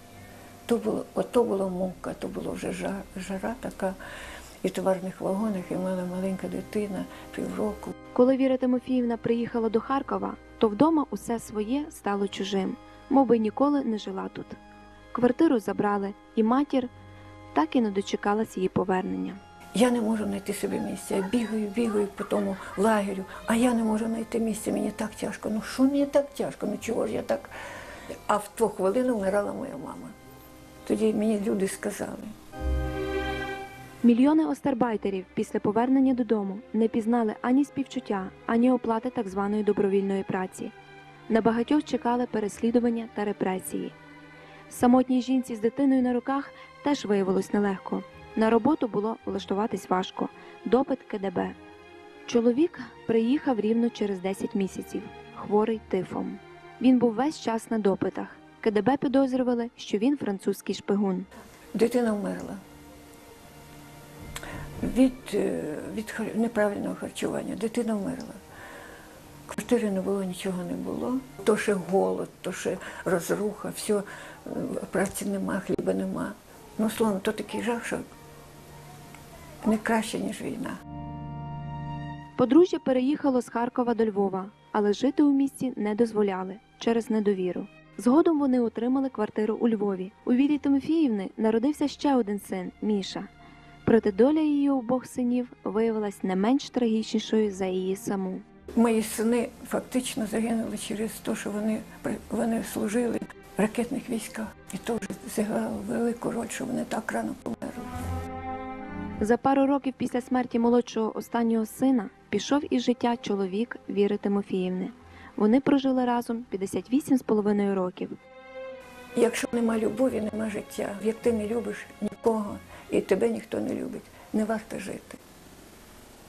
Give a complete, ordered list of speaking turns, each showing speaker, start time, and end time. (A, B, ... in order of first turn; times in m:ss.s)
0:00.7-0:04.0 A
0:04.6-0:07.9 A
0:08.1-0:14.6 B
0:15.1-0:16.9 B
0:17.5-0:19.4 B
0:19.8-0:27.5 A
0:28.3-0:30.1 A
0:30.8-0:32.3 A
0:34.0-0:40.7 B
0:41.3-0:43.9 B
0:44.7-0:51.5 B
0:52.3-1:01.3 B
1:01.7-1:02.6 A
1:04.8-1:08.4 A
1:09.5-1:18.0 A
1:19.6-1:20.8 A
1:22.4-1:33.3 B
1:33.8-1:38.4 B
1:38.8-1:48.0 A
1:49.2-1:58.1 B
1:59.1-2:05.2 A